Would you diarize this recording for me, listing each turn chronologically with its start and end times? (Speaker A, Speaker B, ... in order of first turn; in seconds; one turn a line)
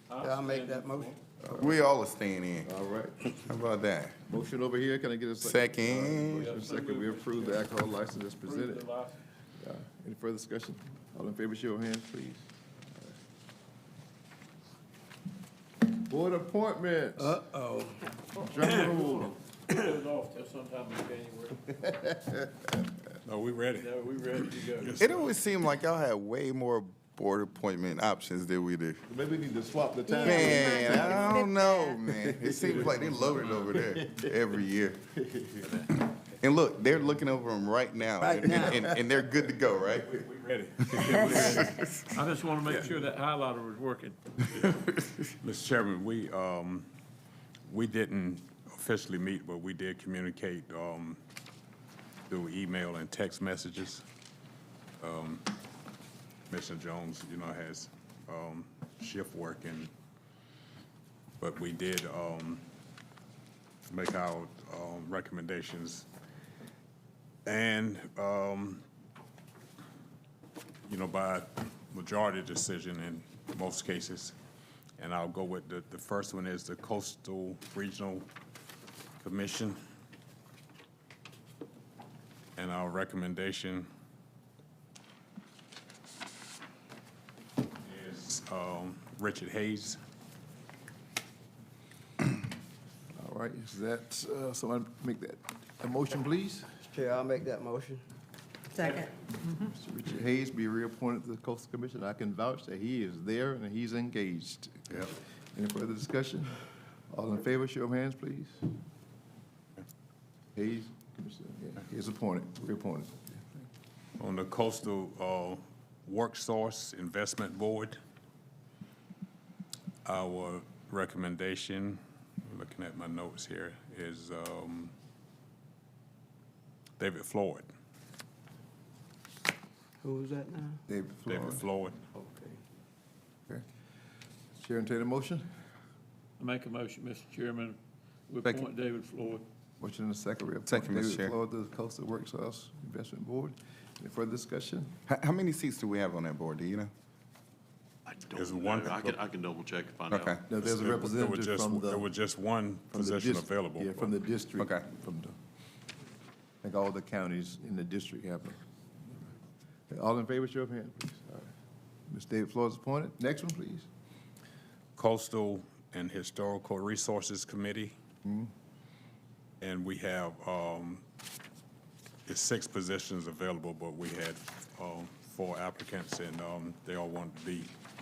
Speaker A: 0.1-1.2
Speaker B: 0.2-1.2
Speaker C: 1.4-1.7
Speaker D: 1.5-2.7
Speaker C: 2.6-3.2
Speaker D: 3.3-4.2
Speaker C: 4.3-8.9
Speaker D: 5.4-6.6
Speaker A: 6.3-7.6
Speaker A: 8.4-9.2
Speaker C: 9.6-13.1
Speaker C: 15.9-17.4
Speaker B: 17.4-18.0
Speaker C: 18.4-19.4
Speaker A: 18.8-21.9
Speaker C: 21.8-22.5
Speaker E: 23.2-25.2
Speaker A: 23.7-25.1
Speaker D: 25.0-29.0
Speaker C: 29.1-31.3
Speaker F: 30.1-32.0
Speaker D: 30.2-35.0
Speaker C: 32.3-33.7
Speaker C: 35.3-35.7
Speaker D: 36.0-40.2
Speaker B: 38.2-38.9
Speaker E: 40.2-41.6
Speaker D: 40.8-41.7
Speaker A: 41.0-44.9
Speaker F: 41.2-41.8
Speaker E: 45.4-46.9
Speaker E: 47.7-51.2
Speaker E: 52.3-54.0
Speaker E: 55.0-55.4
Speaker E: 56.5-59.9
Speaker E: 61.4-62.6
Speaker E: 63.9-66.1
Speaker E: 67.5-68.8
Speaker E: 70.9-74.3
Speaker E: 75.0-78.3
Speaker E: 79.2-79.8
Speaker E: 82.5-83.9
Speaker E: 87.8-90.0
Speaker C: 93.2-96.8
Speaker B: 96.9-98.0
Speaker F: 98.7-99.1
Speaker C: 99.5-108.7
Speaker C: 110.5-113.7
Speaker E: 114.2-118.0
Speaker E: 120.0-124.9
Speaker E: 127.0-127.7
Speaker B: 130.0-130.8
Speaker C: 130.9-131.6
Speaker E: 131.3-132.0
Speaker B: 132.2-132.5
Speaker C: 134.6-135.5
Speaker A: 136.4-137.8
Speaker A: 138.3-139.4
Speaker C: 139.8-144.9
Speaker D: 140.7-141.3
Speaker D: 145.1-146.9
Speaker G: 148.1-150.4
Speaker E: 148.3-149.2
Speaker D: 150.1-150.4
Speaker C: 150.5-152.1
Speaker E: 150.6-154.1
Speaker C: 152.9-155.3
Speaker C: 156.6-158.6
Speaker C: 159.9-161.5
Speaker C: 162.1-163.9
Speaker E: 164.9-167.9
Speaker C: 168.2-168.5
Speaker E: 169.6-171.0
Speaker E: 172.3-177.7